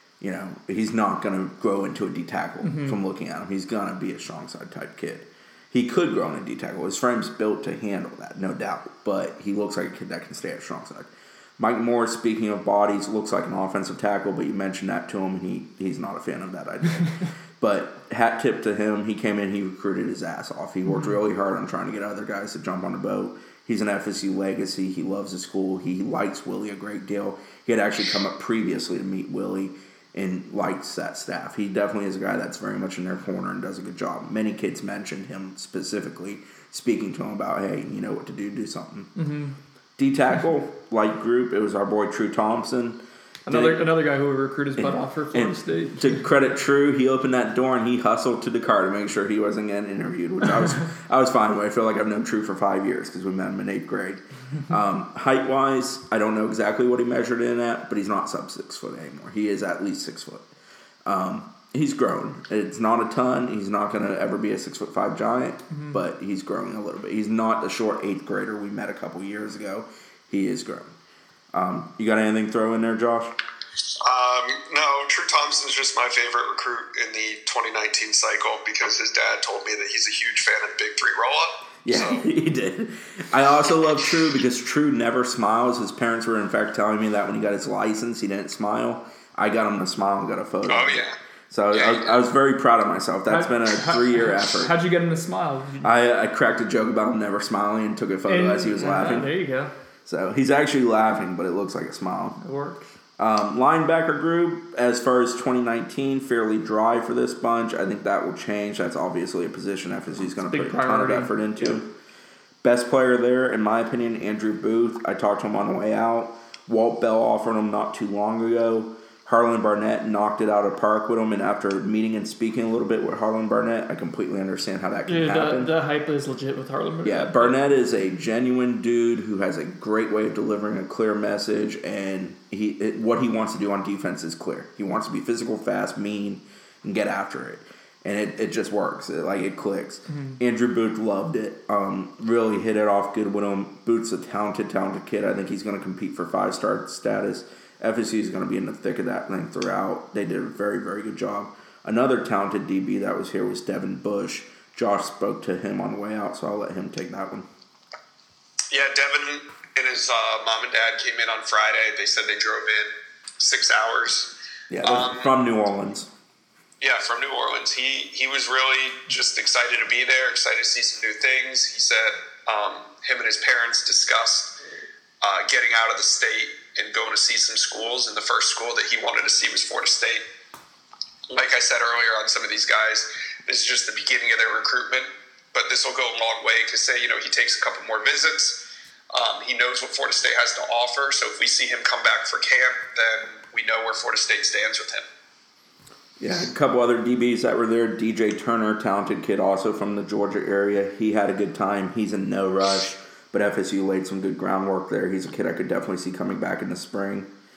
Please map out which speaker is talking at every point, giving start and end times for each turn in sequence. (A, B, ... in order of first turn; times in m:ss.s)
0:00.2-0:39.1 A
0:02.6-0:03.0 B
0:20.9-0:21.2 B
0:39.2-0:39.6 B
0:40.0-0:43.9 A
0:43.4-0:46.2 B
0:44.8-1:00.4 A
1:01.1-1:10.9 A
1:05.7-1:06.0 B
1:11.5-1:13.4 A
1:14.0-1:22.2 C
1:21.8-1:34.7 A
1:30.7-1:31.1 C
1:31.7-1:32.2 C
1:33.3-1:35.9 B
1:35.8-1:39.3 A
1:38.3-1:39.7 B
1:40.0-1:42.4 A
1:42.4-1:42.9 B
1:43.2-1:51.9 A
1:50.5-1:51.8 B
1:52.6-2:05.7 A
2:05.1-2:07.5 B
2:07.0-2:37.5 A
2:20.1-2:20.4 B
2:38.7-2:44.3 C
2:44.7-2:46.1 A
2:44.8-2:45.3 C
2:46.8-2:54.5 C
2:55.2-3:00.2 C
3:01.3-3:08.6 C
3:09.1-3:15.1 C
3:16.2-3:27.3 A